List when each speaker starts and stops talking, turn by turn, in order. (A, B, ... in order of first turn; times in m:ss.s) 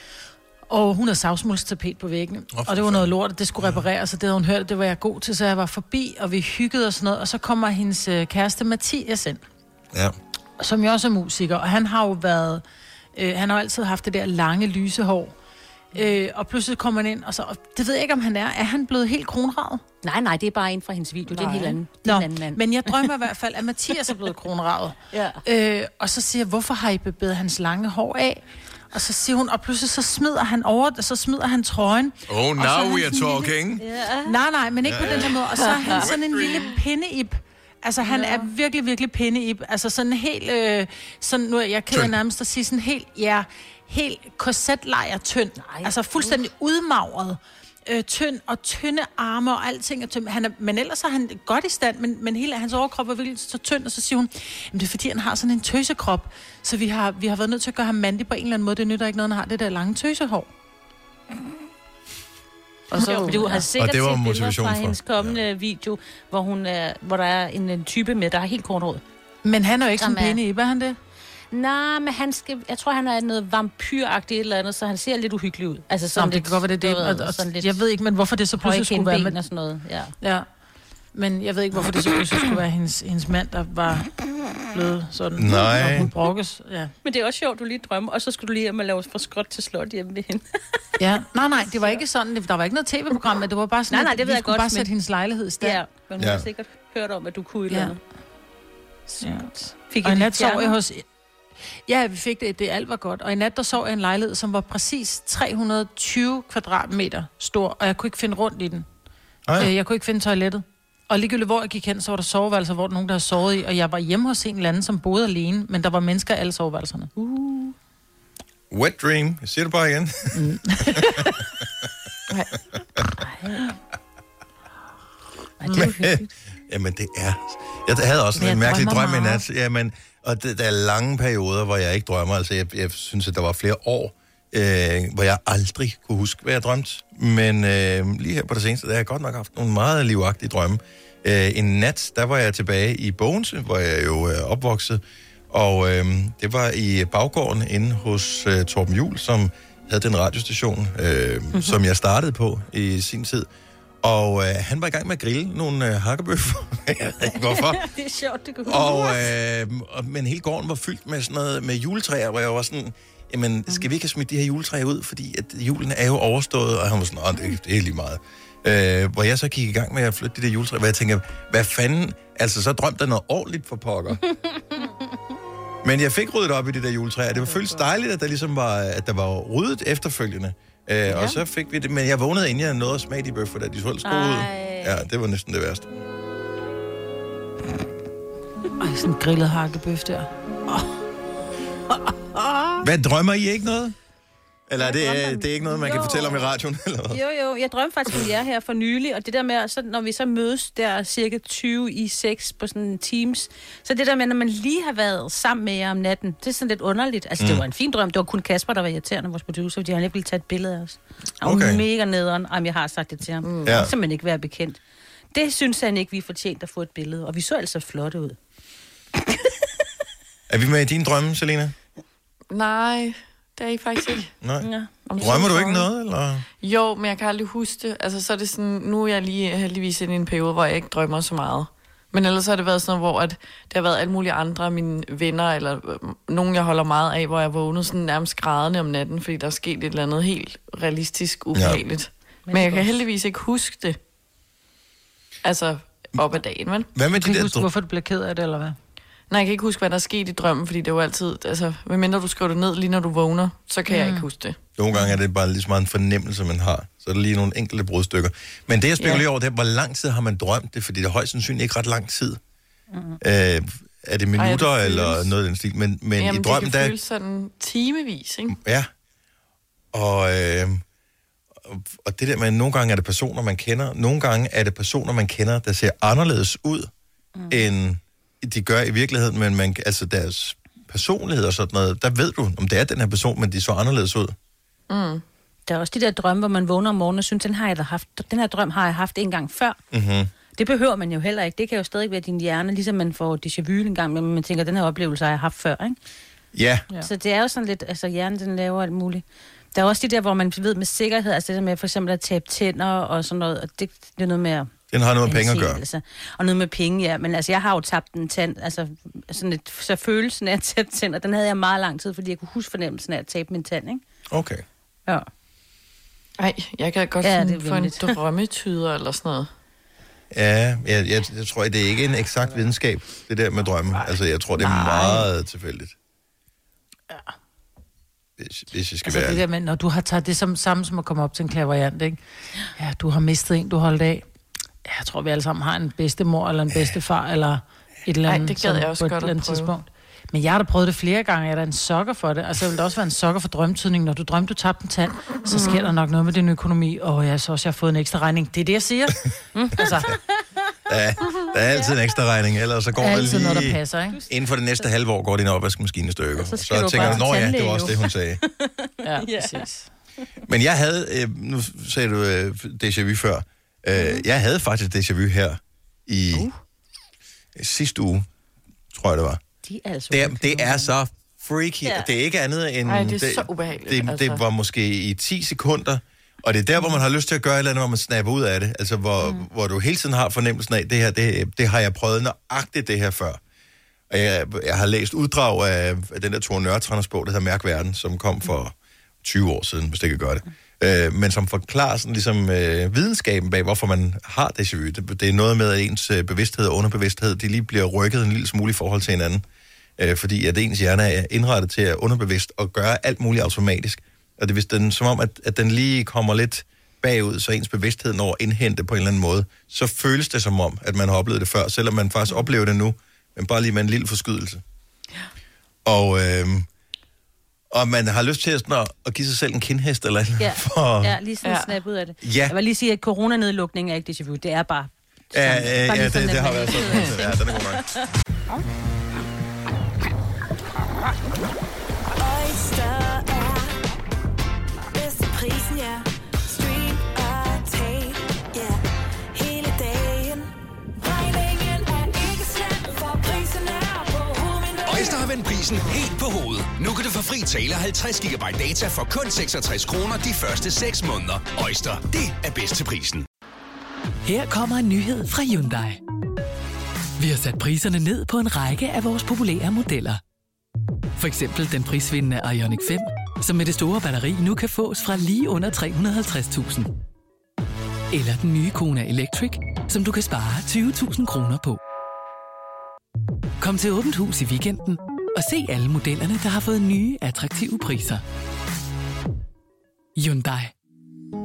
0:00.7-0:09.4 A
0:02.5-0:03.8 B
0:10.6-0:12.6 A
0:13.2-0:15.4 A
0:15.9-0:19.8 A
0:20.0-0:23.1 C
0:21.3-0:33.5 A
0:25.1-0:25.4 C
0:32.3-0:33.8 B
0:33.8-0:34.4 C
0:34.2-1:00.5 A
0:34.8-0:35.4 B
0:35.2-0:36.7 D
0:38.0-0:38.5 C
0:45.6-0:46.4 C
1:02.9-1:03.6 A
1:02.9-1:09.0 C
1:03.8-1:05.4 B
1:09.4-1:11.0 A
1:10.0-1:10.4 C
1:11.5-1:17.8 C
1:16.2-1:19.4 A
1:18.6-1:20.1 C
1:20.2-1:20.5 A
1:21.1-1:24.1 A
1:24.7-1:26.9 A
1:25.4-1:26.1 B
1:27.0-1:30.4 C
1:31.0-1:35.8 A
1:33.9-1:34.9 C
1:35.6-1:38.0 C
1:36.2-1:36.5 B
1:37.7-1:38.0 A
1:39.1-1:40.8 C
1:39.2-1:41.0 A
1:41.9-1:48.9 A
1:49.6-1:57.1 A
1:57.2-1:57.8 C
1:58.7-2:00.4 B
2:00.3-2:01.3 A
2:02.3-2:02.6 D
2:03.2-2:03.8 C
2:05.6-2:06.2 A
2:05.6-2:06.1 C
2:05.7-2:33.5 B
2:08.4-2:09.4 A
2:08.6-2:09.0 C
2:34.0-2:37.8 B
2:37.3-2:39.3 C
2:38.7-2:54.2 B
2:54.3-2:55.0 C
2:55.8-3:05.9 B
3:04.0-3:05.1 C
3:08.8-3:10.9 A
3:11.9-3:12.8 A
3:12.8-3:14.0 B
3:14.7-3:17.2 B
3:14.8-3:16.5 C
3:17.1-3:34.8 C
3:27.4-3:27.6 B
3:31.4-3:31.8 B
3:33.4-3:33.8 D
3:33.6-3:33.9 B
3:35.3-3:38.4 C
3:40.5-3:41.7 B
3:42.5-3:44.3 D
3:44.4-3:46.5 B
3:44.6-3:45.3 C
3:45.1-3:45.9 D
3:46.6-4:04.0 D
4:01.5-4:01.8 B
4:02.5-4:02.9 C
4:05.4-4:06.9 D
4:06.9-4:07.7 B
4:07.1-4:08.8 A
4:09.3-4:14.6 D
4:13.9-4:14.3 A
4:14.8-4:22.4 B
4:22.9-4:23.2 C
4:23.2-4:27.0 B
4:24.4-4:25.3 D
4:26.2-4:28.6 D
4:28.5-4:28.9 B
4:29.9-4:30.8 B
4:31.6-4:36.9 B
4:37.4-4:37.7 C
4:37.5-4:44.4 B
4:44.9-4:45.2 D
4:45.7-4:49.8 C
4:49.9-4:50.3 B
4:50.6-4:56.0 C
4:56.5-4:56.9 B
4:57.0-5:04.7 C
5:04.9-5:05.8 B
5:05.2-5:14.0 C
5:14.3-5:14.6 B
5:16.4-5:19.5 D
5:17.2-5:18.2 C
5:20.3-5:26.0 B
5:24.6-5:25.2 A
5:28.4-5:29.4 B
5:29.1-5:32.2 A
5:32.8-5:34.3 A
5:34.8-5:49.2 A
5:38.3-5:39.7 D
5:45.5-5:45.9 D
5:49.6-5:50.4 C
5:49.8-5:50.1 A
5:50.9-5:58.4 B
5:51.7-5:52.0 C
5:53.0-5:54.2 A
5:56.4-5:59.6 C
5:57.0-5:57.2 A
5:59.0-5:59.9 A
6:00.5-6:06.5 B
6:04.0-6:04.2 C
6:07.6-6:08.3 B
6:08.9-6:09.4 B
6:09.7-6:10.9 C
6:10.1-6:23.4 B
6:11.8-6:12.1 C
6:12.8-6:14.4 D
6:19.2-6:19.5 C
6:24.1-6:39.4 B
6:40.0-6:54.6 B
6:55.8-6:56.7 B
6:57.7-7:01.2 B
7:00.4-7:08.0 C
7:01.4-7:01.7 D
7:02.2-7:02.6 B
7:05.3-7:07.9 B
7:12.1-7:13.8 E
7:14.9-7:18.8 E
7:19.3-7:25.3 E
7:24.8-7:33.2 F
7:34.2-7:36.0 G
7:37.2-7:40.2 G
7:41.2-7:46.9 G
7:48.1-7:51.8 G
7:53.6-7:58.2 G
8:00.2-8:00.7 G